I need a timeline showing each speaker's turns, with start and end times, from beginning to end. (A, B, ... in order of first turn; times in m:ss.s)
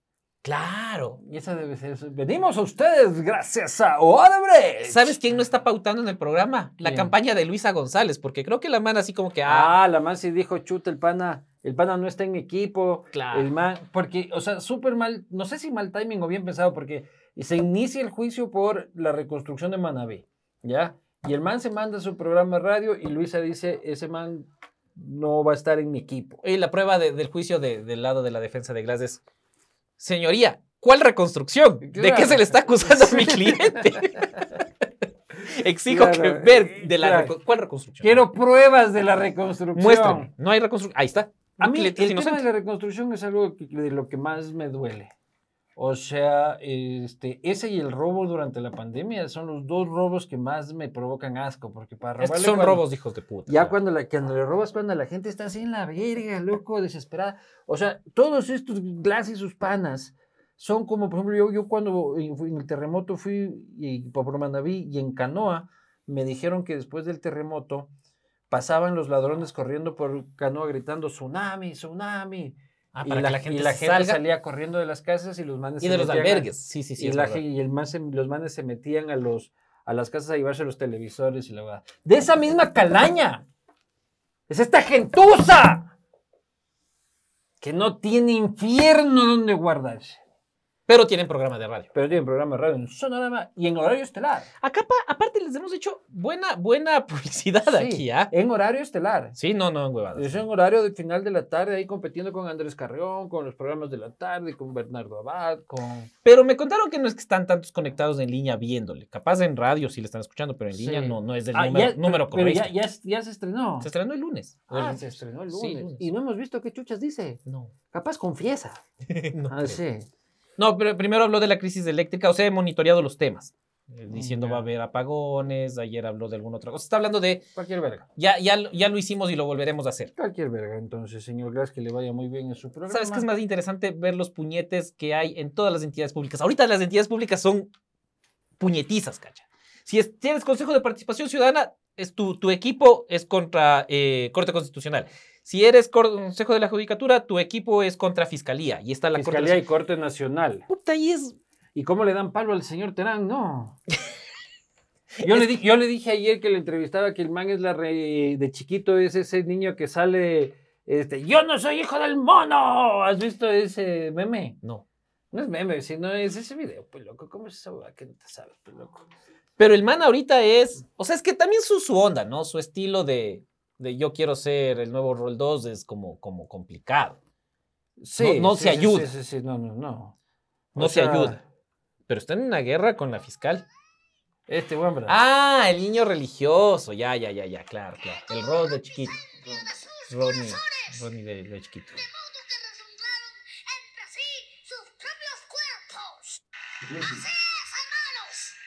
0:00.4-0:01.2 A
0:01.2-0:05.2 B
0:04.8-0:09.7 A
0:06.8-0:07.1 B
0:09.4-0:26.4 B
0:13.1-0:13.5 A
0:26.4-0:29.2 A
0:30.0-0:34.3 A
0:31.8-0:34.3 B
0:35.4-0:38.2 A
0:35.8-0:37.3 B
0:38.0-0:40.3 B
0:39.7-0:42.4 A
0:41.6-0:45.1 B
0:45.8-0:52.8 B
0:52.2-0:53.7 A
0:53.5-1:07.9 B
1:08.5-1:23.4 B
1:12.9-1:14.2 A
1:15.8-1:17.4 A
1:24.5-1:25.9 B
1:27.6-1:30.2 B
1:30.9-1:31.9 A
1:31.9-1:34.5 B
1:34.6-1:38.3 A
1:37.6-1:39.4 B
1:39.4-1:40.4 A
1:40.1-1:46.1 B
1:46.2-1:52.8 A
1:50.7-1:53.9 B
1:53.8-1:56.1 A
1:54.7-1:58.8 B
1:57.4-1:57.7 A
1:59.1-1:59.8 A
1:59.5-2:00.1 B
2:00.6-2:07.4 A
2:04.1-2:04.6 B
2:07.5-2:08.0 B
2:08.2-2:10.1 A
2:10.2-2:13.3 B
2:12.9-2:17.7 A
2:18.6-2:29.6 A
2:29.1-2:30.6 B
2:30.7-2:31.4 A
2:31.7-2:33.8 B
2:35.2-2:44.6 B
2:45.3-2:49.0 B
2:49.6-2:57.2 A
2:58.0-3:00.1 B
2:58.2-2:59.1 A
3:00.7-3:01.4 B
3:00.8-3:01.4 A
3:02.1-3:03.6 A
3:04.5-3:05.2 B
3:05.1-3:09.2 A
3:09.9-3:12.1 A
3:14.0-3:14.4 C
3:15.0-3:16.0 C
3:17.7-3:18.1 C